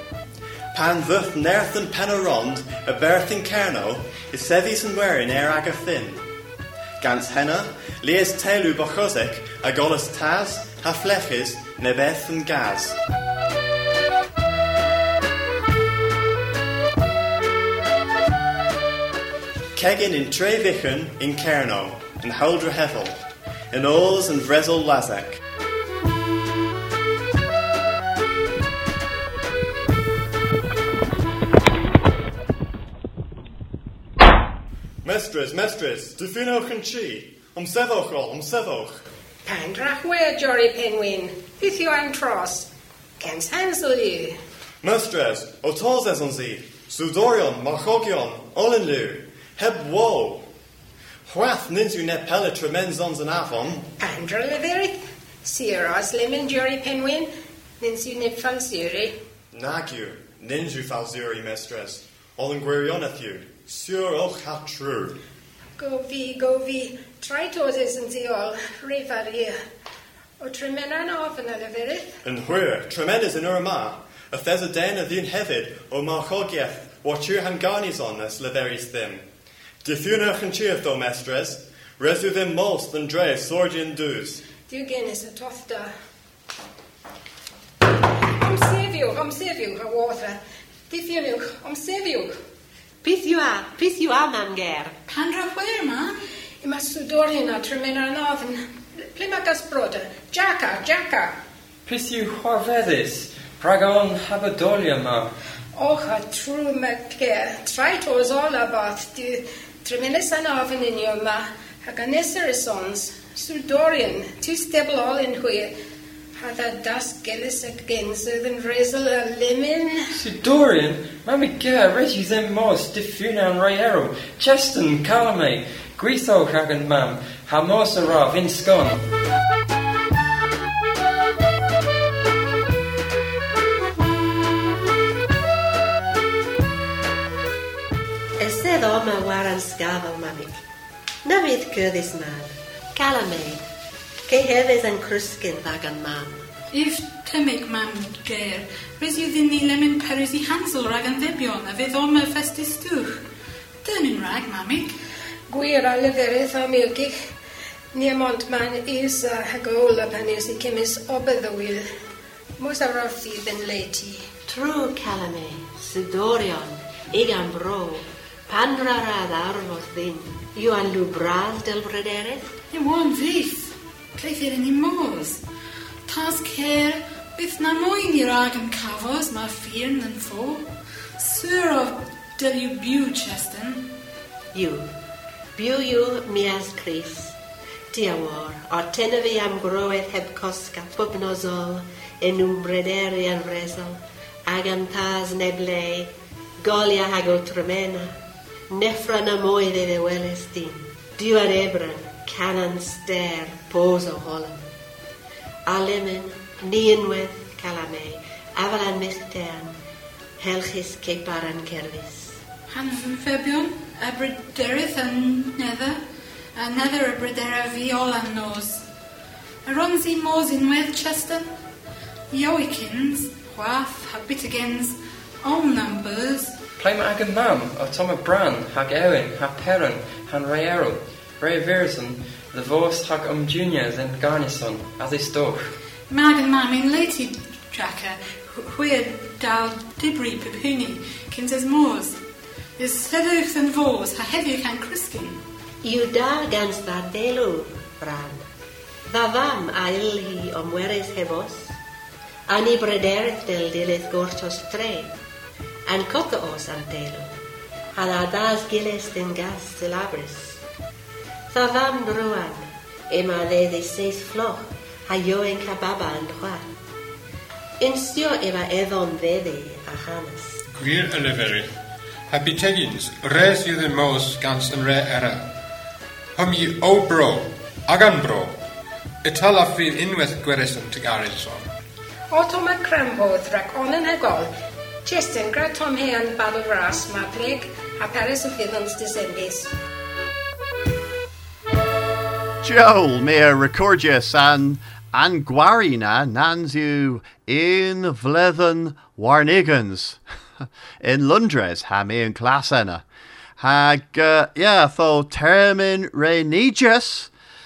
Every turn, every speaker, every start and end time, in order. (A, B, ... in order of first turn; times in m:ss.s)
0:00.7-0:06.2 A
0:07.0-0:13.0 A
0:19.7-0:23.2 A
0:23.7-0:25.4 A
0:35.0-0:39.0 A
0:39.5-0:42.7 B
0:43.2-0:44.3 B
0:44.8-0:50.5 A
0:51.2-0:53.9 A
0:54.0-0:57.3 B
0:57.8-0:59.1 B
0:59.5-1:05.2 A
1:05.8-1:09.5 B
1:10.4-1:12.1 B
1:12.2-1:19.2 A
1:19.8-1:24.4 A
1:24.7-1:25.9 B
1:28.4-1:30.3 B
1:30.9-1:32.3 B
1:33.0-1:35.0 C
1:35.1-1:36.2 D
1:36.6-1:38.6 B
1:39.2-1:41.3 B
1:41.8-1:45.3 E
1:45.8-1:55.7 B
1:56.4-2:00.0 B
2:00.1-2:09.0 E
2:18.4-2:20.6 C
2:21.2-2:23.6 C
2:24.3-2:26.4 C
2:26.7-2:33.2 D
2:33.8-2:34.9 D
2:35.5-2:37.1 B
2:37.9-2:41.8 B
2:42.6-2:44.2 B
2:44.5-2:52.5 C
2:52.7-2:55.4 D
2:56.1-3:00.6 D
3:01.2-3:03.9 D
3:04.5-3:04.9 C
3:05.6-3:07.4 C
3:07.9-3:18.2 C
3:18.7-3:24.6 C
3:25.6-3:29.7 C
3:30.4-3:32.4 C
3:32.7-3:36.0 D
3:36.6-3:38.8 D
3:39.6-3:41.5 D
3:42.3-3:46.6 D
3:46.8-3:55.7 E
3:56.1-4:02.2 D
4:02.8-4:05.4 D
4:05.8-4:08.4 C
4:09.1-4:11.8 C
4:12.5-4:15.1 C
4:15.9-4:17.3 C
4:18.0-4:20.6 C
4:21.5-4:26.6 C
4:27.8-4:30.6 C
4:30.7-4:31.7 F
4:32.3-4:35.5 F
4:36.4-4:38.6 F
4:39.2-4:41.7 F
4:42.3-4:44.5 B
4:45.0-4:49.7 B
4:52.6-5:00.2 G
5:01.0-5:03.0 G
5:03.6-5:07.3 G